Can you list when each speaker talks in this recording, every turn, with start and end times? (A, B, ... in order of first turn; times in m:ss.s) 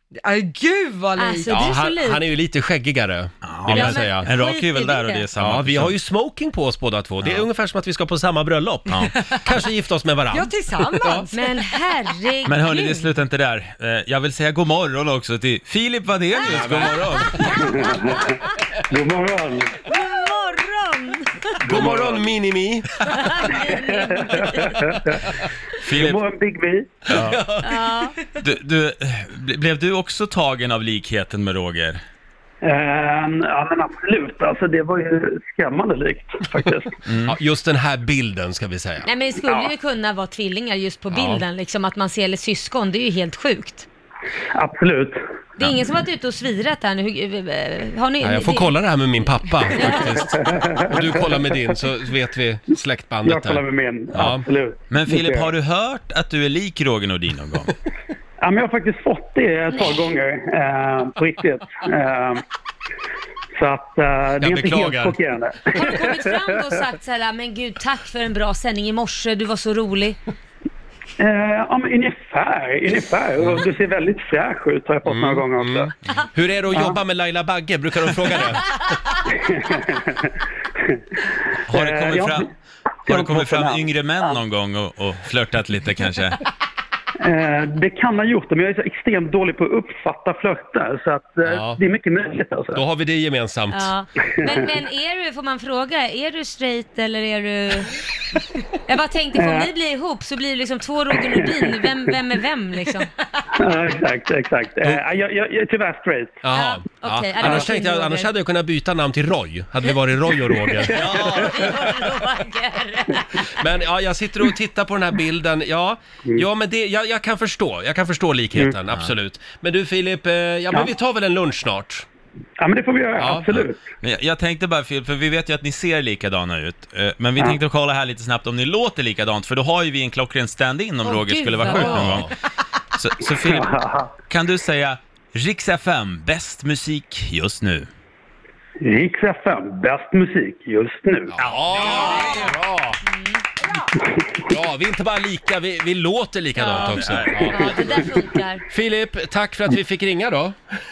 0:00.2-0:01.7 A
0:01.2-0:02.2 B
0:01.5-0:04.3 C
0:03.4-0:06.0 D
0:03.7-0:05.2 B
0:05.4-0:11.3 C
0:08.9-0:09.3 D
0:10.3-0:11.9 A
0:11.3-0:13.1 B
0:12.5-0:17.5 D
0:16.5-0:17.5 C
0:17.3-0:18.4 B
0:17.4-0:19.9 E
0:19.9-0:21.6 B
0:21.6-0:23.5 C
0:21.6-0:22.2 E
0:23.0-0:24.8 B
0:23.5-0:27.1 E
0:25.8-0:26.2 D
0:27.1-0:27.4 D
0:27.1-0:27.8 C
0:27.6-0:28.2 B
0:28.4-0:32.0 D
0:32.6-0:37.0 E
0:37.0-0:37.4 D
0:37.2-0:39.1 C
0:39.0-0:43.9 B
0:39.5-0:39.7 E
0:41.1-0:41.4 C
0:44.5-0:45.2 E
0:45.6-0:48.8 B
0:48.2-0:53.6 C
0:49.7-0:50.2 B
0:50.2-0:51.5 E
0:53.2-0:55.5 E
0:54.1-0:54.4 C
0:54.9-0:57.7 D
0:58.4-1:02.4 E
0:59.7-1:00.0 B
1:03.6-1:06.3 E
1:04.4-1:05.2 C
1:05.7-1:10.2 B
1:11.2-1:15.9 E
1:15.0-1:18.8 C
1:16.7-1:17.0 E
1:19.3-1:20.3 E
1:21.6-1:22.4 E
1:21.7-1:22.5 D
1:23.0-1:24.4 E
1:23.1-1:26.4 D
1:27.2-1:32.8 E
1:31.5-1:31.8 C
1:32.8-1:33.9 C
1:33.7-1:38.0 B
1:38.7-1:43.5 B
1:39.4-1:39.7 E
1:43.5-1:46.4 E
1:46.4-1:51.1 C
1:46.5-1:48.3 B
1:47.4-1:47.7 E
1:50.7-1:51.6 E
1:50.8-1:53.6 B
1:50.9-1:51.8 D
1:53.4-2:02.1 C
2:02.6-2:03.8 E
2:03.2-2:03.6 C
2:03.5-2:12.3 D
2:11.0-2:12.2 B
2:11.6-2:12.3 C
2:13.0-2:13.7 D
2:13.4-2:14.1 E
2:14.2-2:17.9 D
2:18.8-2:21.4 E
2:21.3-2:23.0 C
2:21.9-2:22.5 B
2:23.0-2:23.4 B
2:24.0-2:24.3 E
2:24.5-2:27.9 C
2:26.6-2:28.6 B
2:26.7-2:28.0 D
2:28.7-2:30.6 C